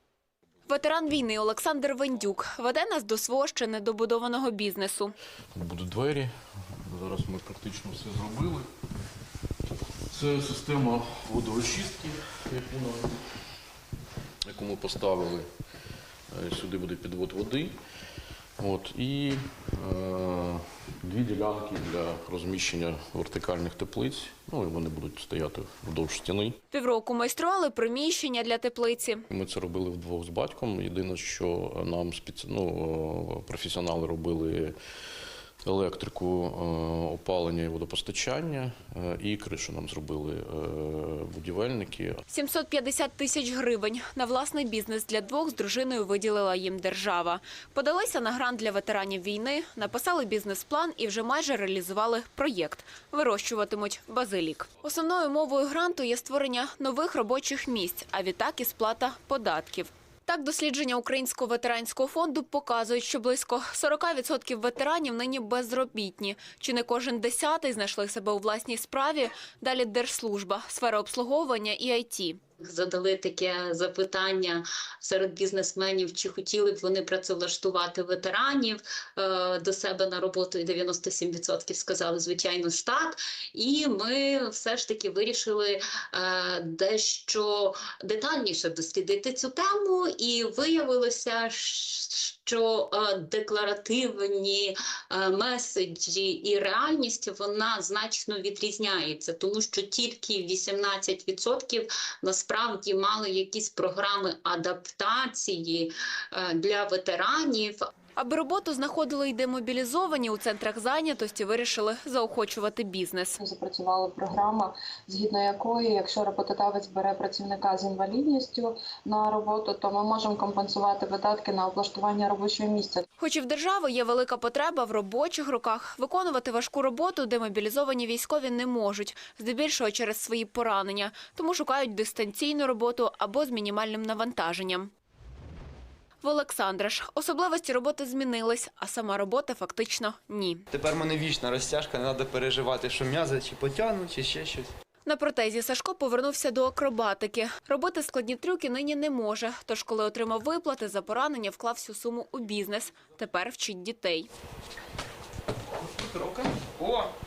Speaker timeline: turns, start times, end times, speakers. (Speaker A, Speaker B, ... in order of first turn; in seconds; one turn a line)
Speaker A: 0.7-5.1
Speaker B: 5.5-6.3
Speaker B: 6.8-8.7
Speaker B: 10.1-13.2
Speaker B: 14.4-15.5
Speaker B: 16.3-17.7
Speaker B: 18.6-26.6
Speaker A: 26.7-29.2
Speaker B: 29.3-34.7
Speaker B: 35.6-42.2
Speaker A: 42.3-72.4
Speaker C: 72.6-107.8
Speaker A: 108.2-113.4
Speaker D: 113.4-123.0
Speaker A: 123.2-134.9
Speaker A: 136.2-140.6
Speaker E: 140.7-144.7
Speaker A: 145.1-154.3
Speaker E: 155.8-157.1